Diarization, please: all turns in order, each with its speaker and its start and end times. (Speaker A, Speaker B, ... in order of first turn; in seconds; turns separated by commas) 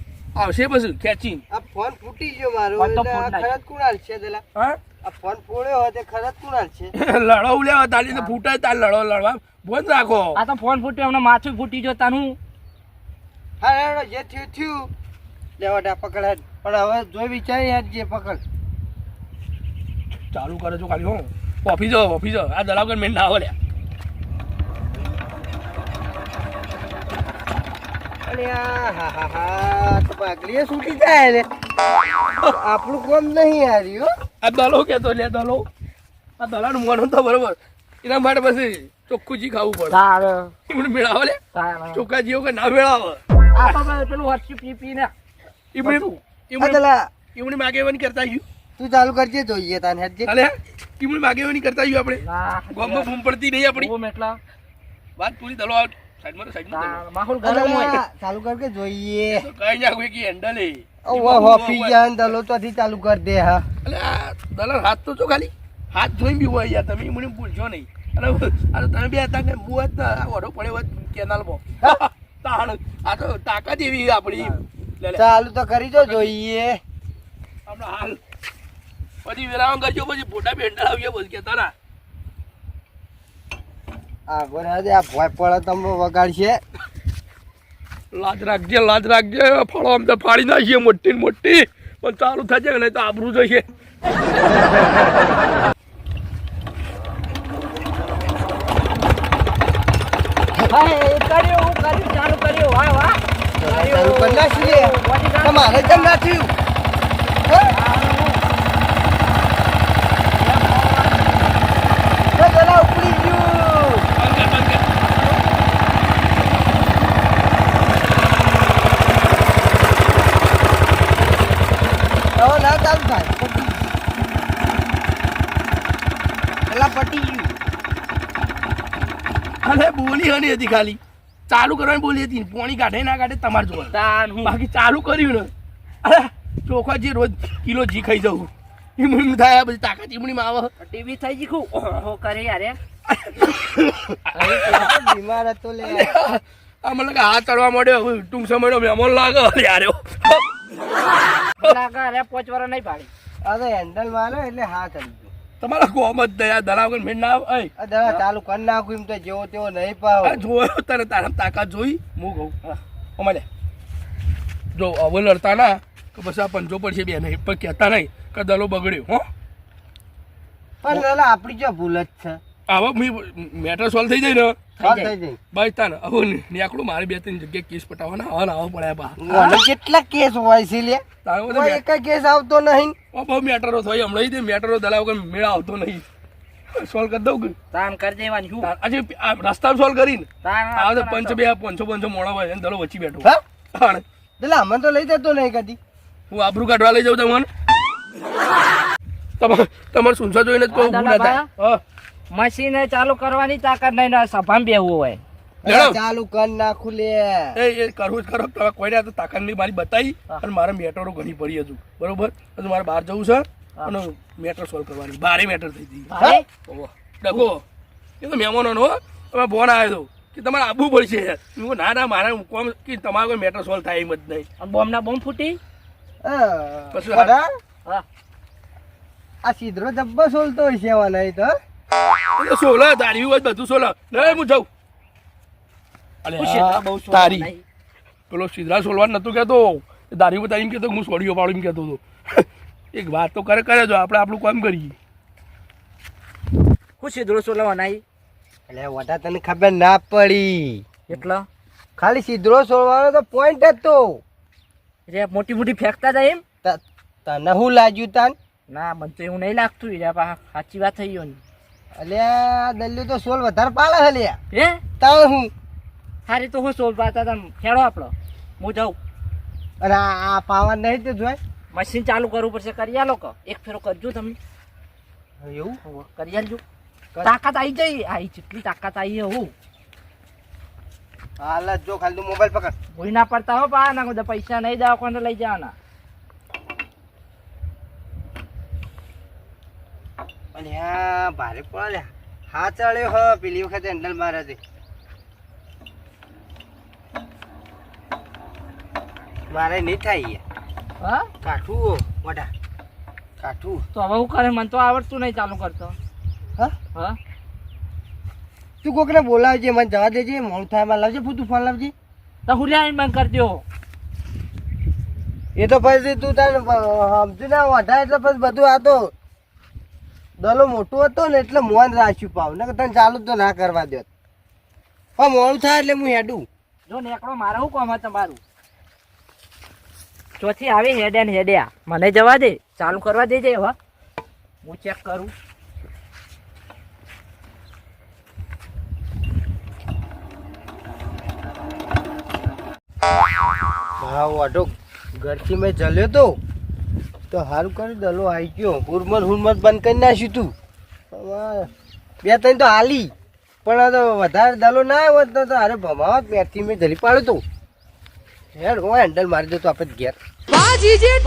Speaker A: 0.3-1.4, Speaker B: 1.5-4.4, Speaker C: 2.8-3.5, Speaker A: 4.5-4.8, Speaker B: 5.0-6.9, Speaker A: 6.9-10.4, Speaker C: 10.3-12.4, Speaker B: 13.6-14.9, Speaker B: 15.6-18.4, Speaker A: 20.3-23.5, Speaker B: 28.2-31.5, Speaker B: 32.4-34.1, Speaker A: 34.4-35.7, Speaker A: 36.4-40.0, Speaker C: 39.9-40.5, Speaker A: 40.7-41.4, Speaker C: 41.5-42.0, Speaker A: 41.9-43.7, Speaker C: 43.5-45.1, Speaker A: 45.7-46.8, Speaker C: 45.8-46.2, Speaker B: 46.6-47.1, Speaker A: 47.3-48.4, Speaker B: 48.8-50.3, Speaker A: 50.2-53.9, Speaker C: 52.2-53.1, Speaker C: 53.7-54.4, Speaker A: 55.2-57.0, Speaker C: 56.7-58.0, Speaker B: 57.4-59.5, Speaker A: 59.3-62.3, Speaker B: 61.0-63.7, Speaker A: 63.8-75.2, Speaker B: 75.1-76.8, Speaker A: 76.0-76.3, Speaker A: 77.7-78.2, Speaker A: 79.2-81.7, Speaker B: 84.3-86.6, Speaker A: 88.1-93.6, Speaker C: 100.7-106.2, Speaker B: 103.6-106.5, Speaker B: 107.5-107.7, Speaker C: 107.7-108.4, Speaker C: 110.4-111.7, Speaker B: 112.3-114.1, Speaker A: 114.2-114.9, Speaker C: 115.0-115.4, Speaker B: 122.3-123.9, Speaker B: 126.7-127.5, Speaker A: 129.6-135.5, Speaker C: 133.9-134.5, Speaker A: 136.0-140.7, Speaker C: 140.8-142.8, Speaker A: 143.1-144.9, Speaker C: 144.3-144.8, Speaker B: 144.6-146.2, Speaker A: 145.8-150.5, Speaker C: 151.6-153.1, Speaker B: 153.4-155.3, Speaker A: 155.6-157.7, Speaker B: 157.8-160.4, Speaker A: 160.2-162.5, Speaker A: 163.2-163.4, Speaker A: 164.7-169.2, Speaker B: 170.8-172.4, Speaker A: 172.7-174.6, Speaker C: 174.8-175.1, Speaker B: 174.8-175.4, Speaker A: 175.5-179.5, Speaker B: 179.2-182.9, Speaker C: 179.3-179.6, Speaker A: 181.2-181.8, Speaker A: 183.1-186.0, Speaker A: 186.7-187.6, Speaker C: 187.7-188.7, Speaker A: 188.6-194.0, Speaker C: 190.4-191.4, Speaker B: 194.4-195.8, Speaker A: 196.3-197.5, Speaker A: 199.4-201.8, Speaker C: 200.7-201.5, Speaker C: 202.3-205.2, Speaker B: 205.6-207.6, Speaker A: 205.7-206.0, Speaker A: 207.5-216.1, Speaker C: 216.1-216.4, Speaker A: 216.7-217.6, Speaker A: 218.2-224.5, Speaker C: 224.6-225.6, Speaker B: 226.2-227.5, Speaker A: 226.9-227.3, Speaker B: 229.4-231.5, Speaker A: 232.4-234.7, Speaker A: 236.2-237.5, Speaker C: 236.4-237.6, Speaker A: 238.3-244.9, Speaker C: 247.0-248.0, Speaker B: 248.7-250.8, Speaker C: 251.1-251.4, Speaker B: 252.0-254.2, Speaker C: 255.1-256.4, Speaker B: 256.6-258.3, Speaker C: 258.7-261.4, Speaker B: 262.0-264.4, Speaker C: 264.5-264.8, Speaker B: 265.0-265.5, Speaker C: 266.3-269.0, Speaker B: 269.8-271.4, Speaker C: 271.7-274.4, Speaker B: 275.4-275.8, Speaker C: 275.8-276.6, Speaker C: 277.2-279.5, Speaker B: 281.4-282.7, Speaker C: 282.9-285.7, Speaker B: 290.5-294.6, Speaker B: 299.5-300.4, Speaker C: 301.0-301.3, Speaker B: 301.4-302.5, Speaker B: 303.4-303.8, Speaker C: 303.9-305.9, Speaker B: 308.8-311.9, Speaker C: 312.4-313.6, Speaker B: 315.6-319.1, Speaker B: 320.4-324.1, Speaker B: 325.2-326.4, Speaker C: 326.9-328.4, Speaker C: 330.4-333.8, Speaker C: 334.6-335.3, Speaker B: 344.0-346.4, Speaker B: 347.3-350.5, Speaker B: 351.1-351.7, Speaker B: 352.2-353.1, Speaker B: 353.6-357.4, Speaker B: 358.5-360.1